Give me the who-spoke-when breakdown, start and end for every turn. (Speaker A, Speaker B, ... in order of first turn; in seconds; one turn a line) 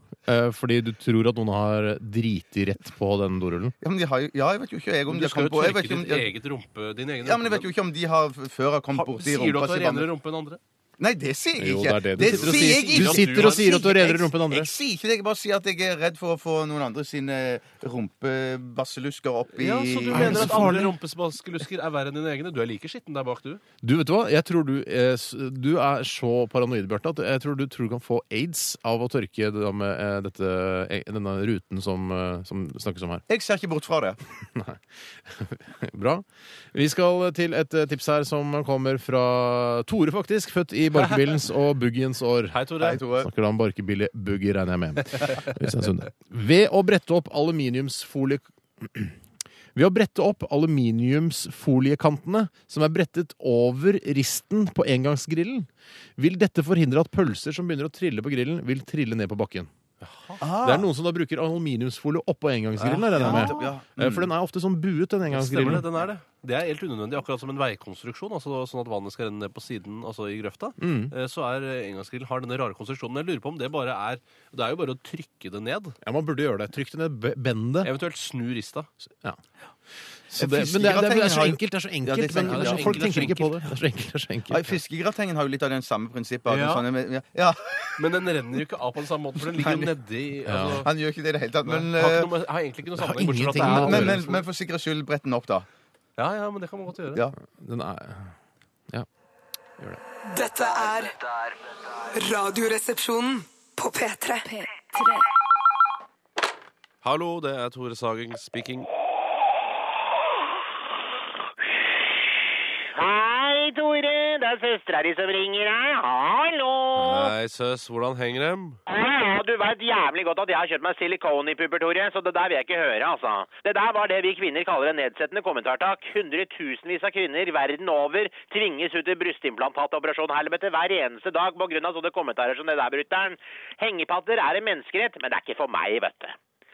Speaker A: 0.2-3.8
Speaker B: 3.8-6.3
Speaker C: 5.1-7.7
Speaker B: 7.2-10.1
Speaker C: 8.9-10.6
Speaker B: 11.0-20.7
Speaker A: 11.6-14.7
Speaker C: 12.2-13.8
Speaker C: 19.6-23.6
Speaker A: 20.1-20.9
Speaker A: 23.8-33.2
Speaker B: 33.3-34.2
Speaker A: 34.5-49.1
Speaker C: 42.5-43.0
Speaker B: 42.8-43.3
Speaker A: 49.7-59.7
Speaker C: 60.0-60.4
Speaker B: 60.4-60.9
Speaker A: 60.5-65.9
Speaker C: 62.8-63.5
Speaker B: 63.1-64.3
Speaker C: 65.3-76.0
Speaker A: 70.8-71.1
Speaker A: 76.0-77.9
Speaker C: 77.8-78.9
Speaker A: 80.3-84.8
Speaker B: 80.4-83.3
Speaker C: 82.3-83.5
Speaker B: 84.5-88.0
Speaker C: 86.5-86.8
Speaker C: 88.0-90.9
Speaker B: 89.5-89.9
Speaker A: 90.4-90.9
Speaker B: 90.8-92.3
Speaker C: 91.6-94.5
Speaker A: 93.0-94.2
Speaker B: 93.6-95.7
Speaker C: 96.2-97.2
Speaker A: 97.5-98.3
Speaker D: 100.2-101.3
Speaker D: 102.1-105.2
Speaker C: 107.0-108.9
Speaker E: 112.8-117.3
Speaker C: 117.0-118.8
Speaker E: 118.9-136.3